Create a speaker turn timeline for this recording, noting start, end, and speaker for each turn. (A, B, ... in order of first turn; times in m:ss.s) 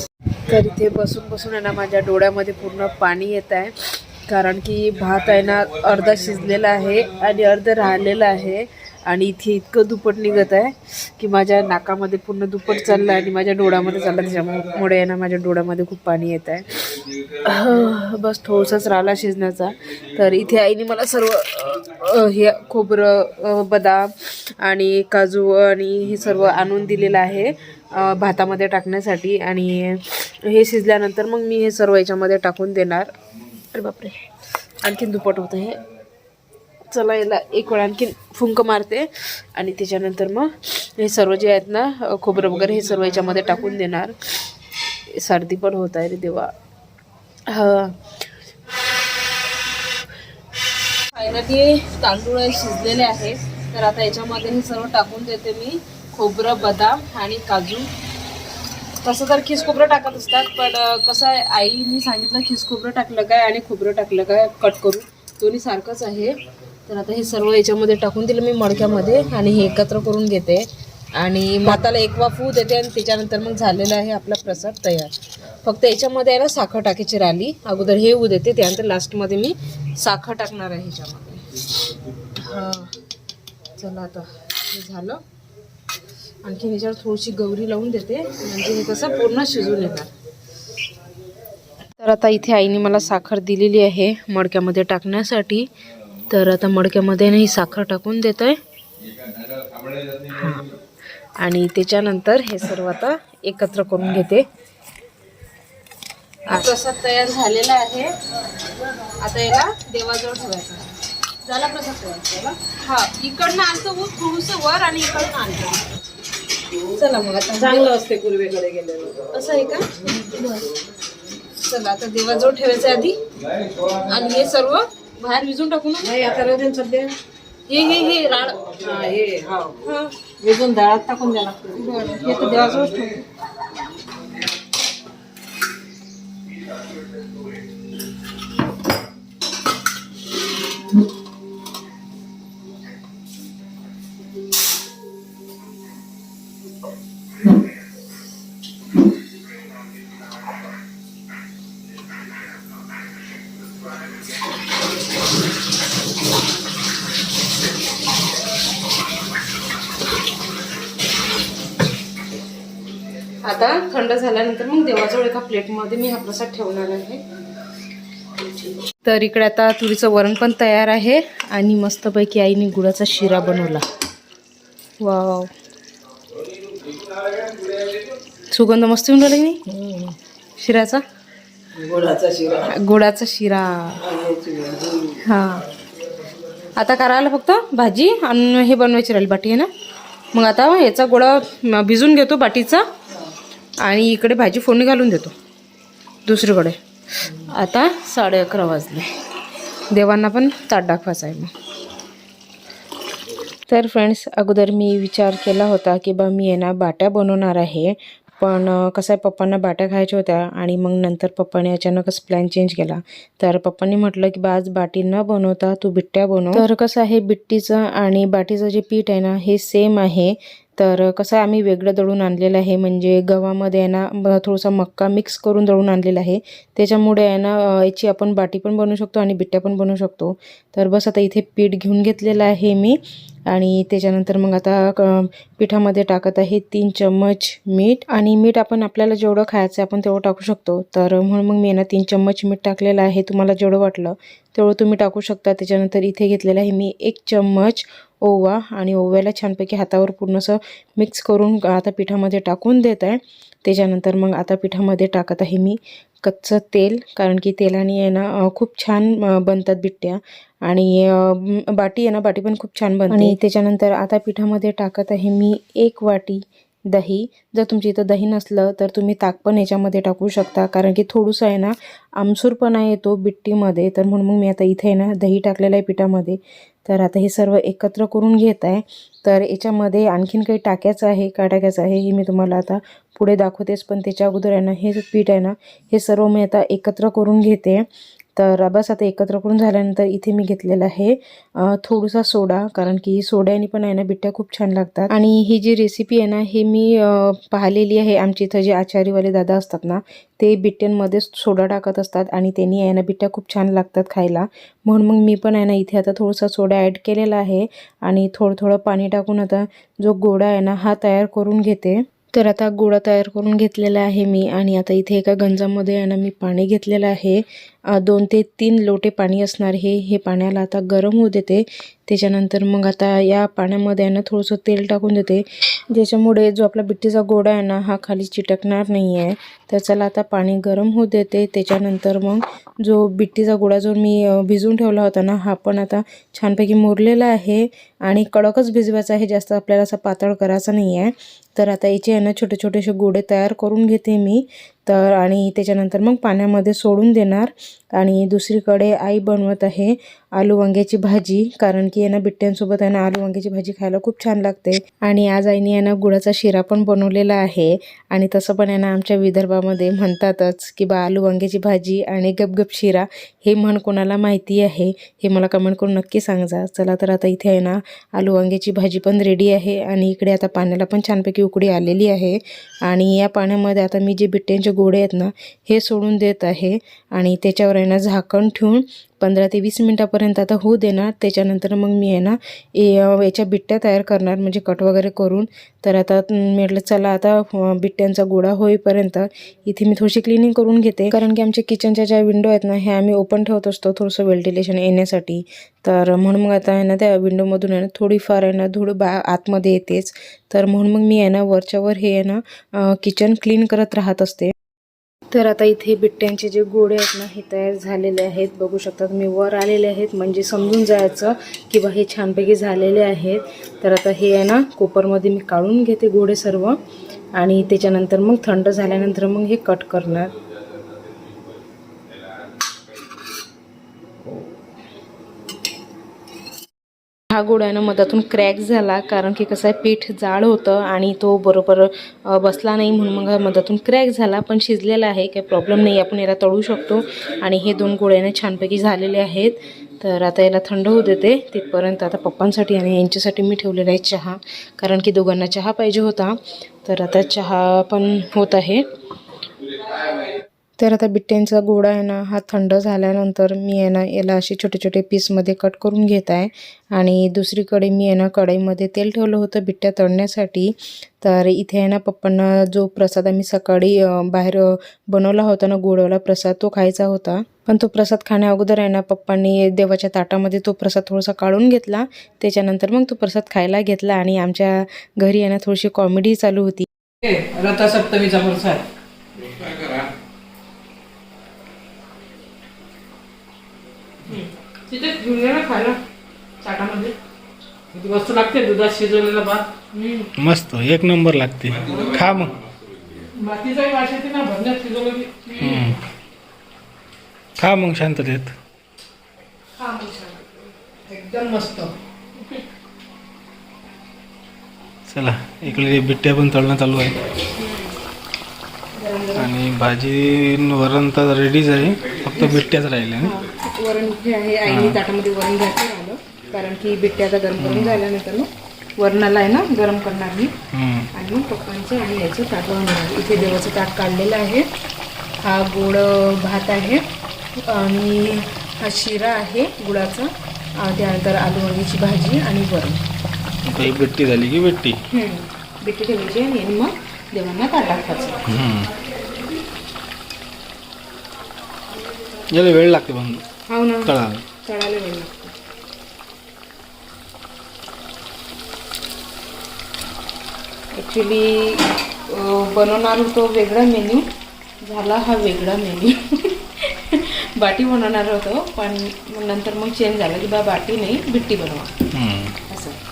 0:00.4-0:33.1 A
0:33.7-0:34.2 A
0:34.8-0:35.8 A
0:36.9-0:44.4 A
0:45.1-0:46.5 A
0:47.5-0:48.0 A
0:51.1-0:57.9 A
0:59.0-1:06.3 A
1:06.8-1:21.5 A
1:22.4-1:23.0 A
1:23.8-1:25.2 A
1:26.4-1:30.1 A
1:32.0-1:35.7 A
1:36.3-1:38.6 A
1:40.3-1:40.7 A
1:41.4-1:44.4 A
1:46.5-1:48.1 A
1:49.2-1:55.9 A
1:56.9-1:57.9 A
1:57.5-1:59.3 B
1:59.3-2:00.7 A
2:01.5-2:03.2 A
2:04.0-2:06.1 A
2:06.0-2:07.2 B
2:07.7-2:08.7 A
2:08.4-2:09.8 B
2:09.8-2:10.1 A
2:10.4-2:12.4 B
2:11.8-2:13.2 A
2:43.4-2:47.2 A
2:48.9-2:53.8 A
2:55.0-2:55.5 A
2:58.5-2:59.6 A
2:59.7-3:00.1 B
3:00.6-3:01.0 A
3:01.8-3:02.7 B
3:02.6-3:04.0 A
3:04.0-3:05.2 B
3:05.2-3:05.7 A
3:06.8-3:09.7 A
3:10.3-3:12.8 A
3:13.8-3:15.3 A
3:16.2-3:19.1 A
3:19.9-3:21.5 A
3:23.7-4:47.8 A
4:48.4-6:44.5 A
6:45.3-6:56.8 A
6:57.4-7:00.3 A
7:07.3-7:28.9 A
7:30.8-7:56.9 A
7:57.2-7:58.8 B
8:04.2-8:06.0 A
8:06.6-8:07.1 A
8:07.9-8:09.7 B
8:09.9-8:10.3 A
8:10.4-8:12.6 C
8:13.3-8:15.5 B
8:15.4-8:16.0 A
8:15.6-8:16.0 C
8:17.6-8:18.5 C
8:19.8-8:21.9 A
8:25.1-8:27.2 C
8:27.5-8:28.0 A
8:28.9-8:29.5 A
8:29.3-8:33.4 C
8:32.4-8:32.6 A
8:33.2-8:40.5 A
8:34.7-8:35.0 C
8:37.6-8:38.0 C
8:40.7-8:41.1 C
8:41.1-8:44.6 A
8:45.4-8:47.0 A
8:47.6-8:53.0 A
8:53.6-8:55.0 C
8:55.1-8:58.4 A
8:58.4-8:58.9 C
9:02.5-9:03.4 C
9:03.7-9:04.1 A
9:04.0-9:04.4 C
9:04.6-9:05.5 A
9:10.9-9:14.2 A
9:14.8-9:21.9 A
9:22.1-9:22.6 C
9:22.7-9:23.0 A